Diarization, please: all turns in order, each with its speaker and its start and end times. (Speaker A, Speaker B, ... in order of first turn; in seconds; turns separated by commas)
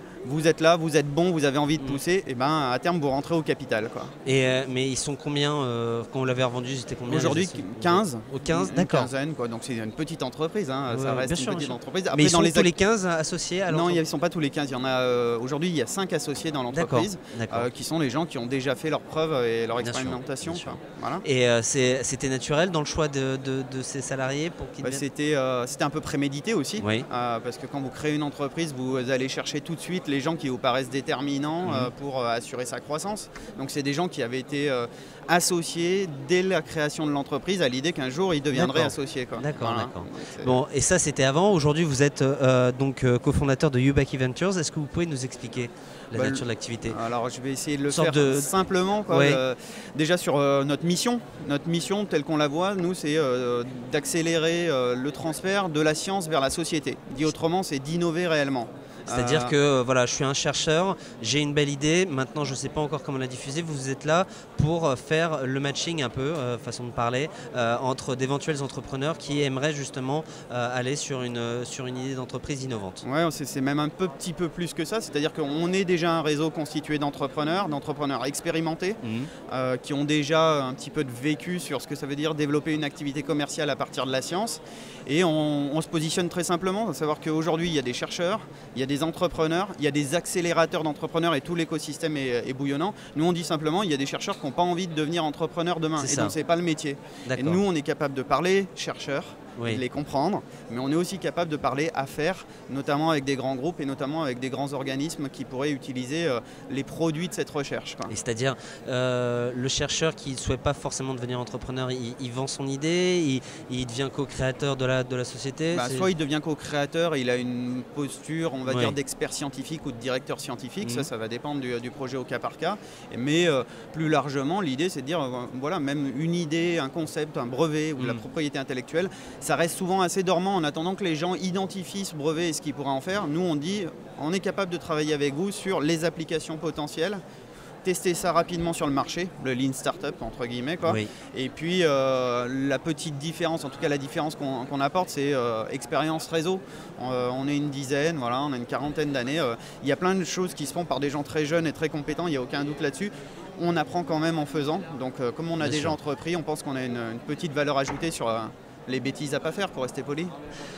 Speaker A: 0.2-4.1, Speaker B: 4.2-9.1, Speaker A: 7.1-12.7, Speaker B: 10.9-14.0, Speaker A: 13.7-21.2, Speaker B: 16.7-17.7, Speaker B: 19.8-25.1, Speaker A: 24.8-40.5, Speaker B: 26.8-27.1, Speaker B: 31.6-31.9, Speaker B: 38.5-47.0, Speaker A: 46.1-59.6, Speaker B: 47.9-48.5, Speaker B: 49.1-49.4, Speaker B: 59.1-73.0, Speaker A: 73.0-108.1, Speaker B: 79.0-79.3, Speaker B: 96.0-96.4, Speaker B: 97.2-97.6, Speaker B: 99.5-99.8, Speaker B: 108.1-116.1, Speaker A: 115.7-137.2, Speaker B: 118.7-119.0, Speaker B: 120.8-121.1, Speaker B: 128.0-128.3, Speaker A: 137.8-160.3, Speaker B: 140.9-141.1, Speaker B: 155.6-156.0